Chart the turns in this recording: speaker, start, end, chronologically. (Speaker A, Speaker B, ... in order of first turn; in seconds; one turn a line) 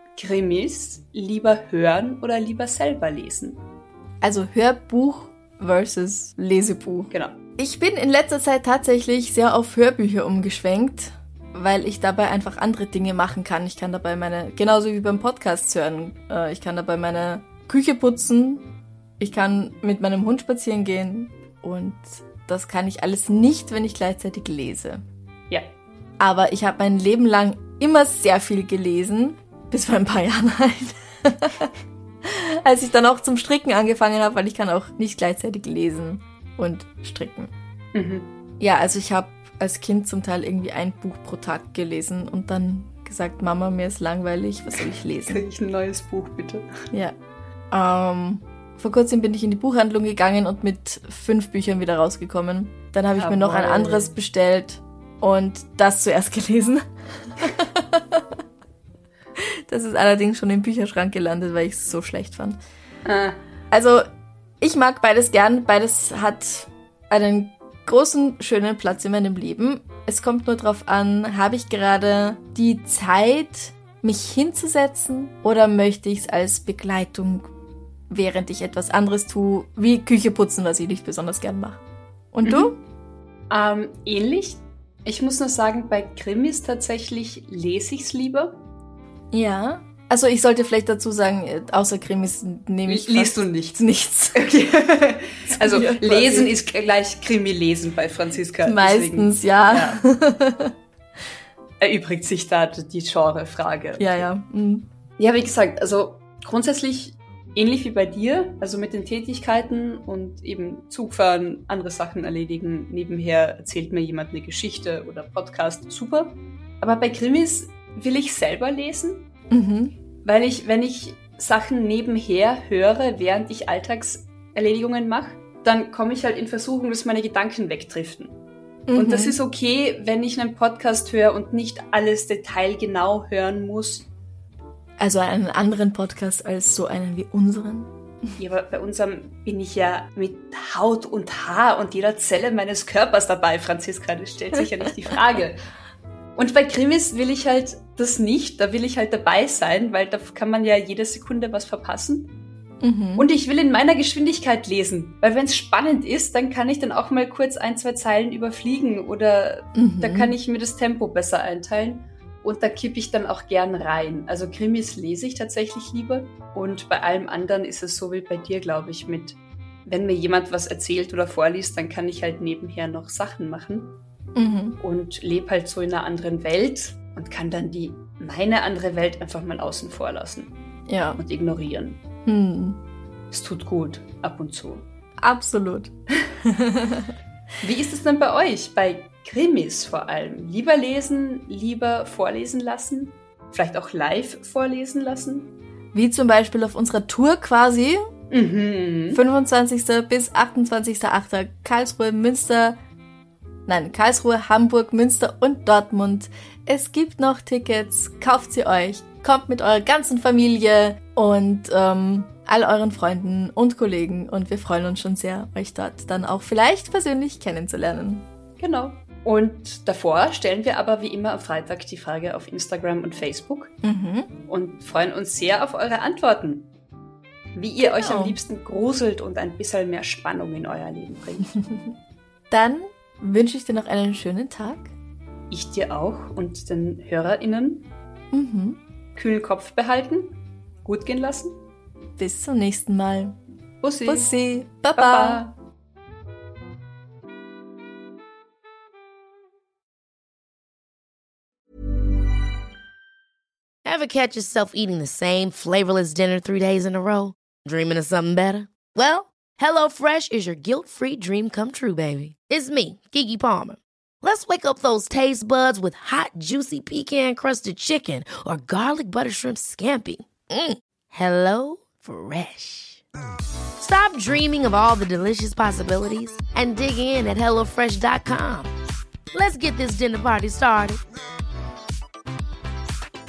Speaker A: 0.2-3.6
Speaker B: 4.2-18.7
Speaker B: 19.2-25.0
Speaker B: 26.2-31.7
Speaker B: 32.2-37.5
Speaker A: 37.9-38.3
Speaker B: 38.6-45.4
Speaker A: 45.3-46.9
Speaker B: 47.7-56.9
Speaker A: 53.2-54.1
Speaker B: 57.4-58.2
Speaker B: 59.7-62.6
Speaker A: 63.0-63.4
Speaker B: 63.7-64.1
Speaker B: 64.6-77.5
Speaker B: 78.1-81.8
Speaker B: 82.3-82.8
Speaker A: 82.5-82.7
Speaker A: 83.5-88.6
Speaker B: 89.3-94.5
Speaker A: 92.9-100.0
Speaker B: 95.5-96.5
Speaker B: 98.6-100.7
Speaker A: 101.8-104.2
Speaker B: 104.0-104.9
Speaker A: 105.2-119.3
Speaker B: 119.5-119.9
Speaker A: 120.2-128.3
Speaker B: 128.9-129.4
Speaker A: 128.9-134.1
Speaker B: 135.0-137.9
Speaker A: 138.4-145.6
Speaker A: 146.4-152.3
Speaker B: 152.8-153.3
Speaker A: 153.2-173.9
Speaker B: 159.8-160.3
Speaker B: 174.4-174.8
Speaker A: 174.8-180.6
Speaker B: 180.9-181.2
Speaker A: 181.2-182.0
Speaker B: 182.3-182.8
Speaker A: 183.3-184.8
Speaker B: 185.2-185.9
Speaker B: 186.4-187.1
Speaker A: 187.6-195.6
Speaker B: 195.9-198.1
Speaker A: 198.3-199.2
Speaker B: 199.1-202.8
Speaker B: 203.7-218.3
Speaker A: 218.6-223.7
Speaker B: 223.8-224.3
Speaker A: 224.5-226.7
Speaker A: 227.5-231.5
Speaker B: 227.8-228.4
Speaker B: 232.5-234.9
Speaker A: 235.5-237.9
Speaker B: 238.3-238.8
Speaker A: 239.2-241.6
Speaker B: 242.2-243.4
Speaker A: 243.8-244.3
Speaker B: 244.1-245.4
Speaker A: 245.0-245.6
Speaker C: 253.8-273.0
Speaker C: 273.8-278.7
Speaker C: 279.3-281.0